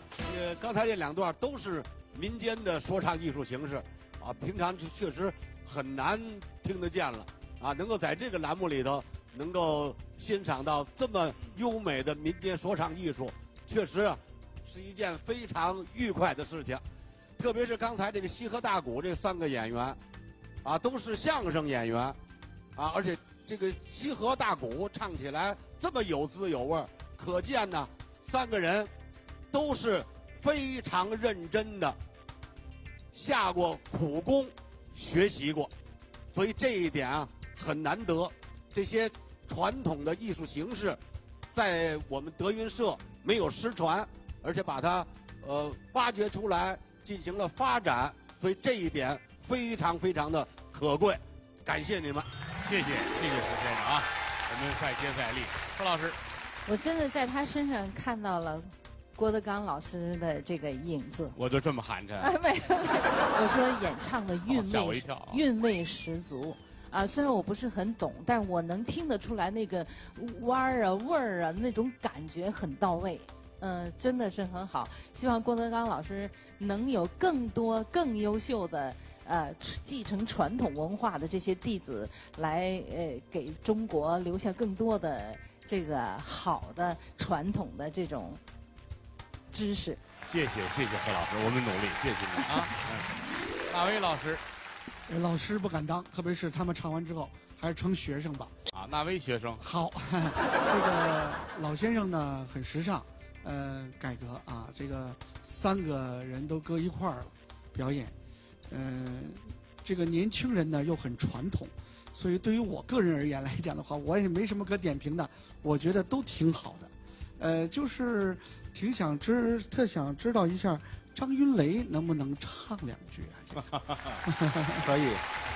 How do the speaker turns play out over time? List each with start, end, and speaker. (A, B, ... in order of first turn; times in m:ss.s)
0:00.2-0:16.8 A
0:17.4-0:20.0 A
0:20.6-0:22.2 A
0:22.8-0:28.9 A
0:29.5-0:32.0 A
0:33.1-0:35.7 A
0:36.3-0:52.3 A
0:52.6-0:56.2 B
0:56.7-1:01.4 C
1:01.3-1:02.3 B
1:02.2-1:28.4 C
1:04.5-1:05.4 B
1:29.5-1:30.0 C
1:30.3-1:33.2 B
1:33.7-1:34.4 B
1:35.1-1:38.5 D
1:38.7-1:39.6 B
1:39.6-1:48.2 D
1:48.7-2:04.9 D
2:03.7-2:04.2 B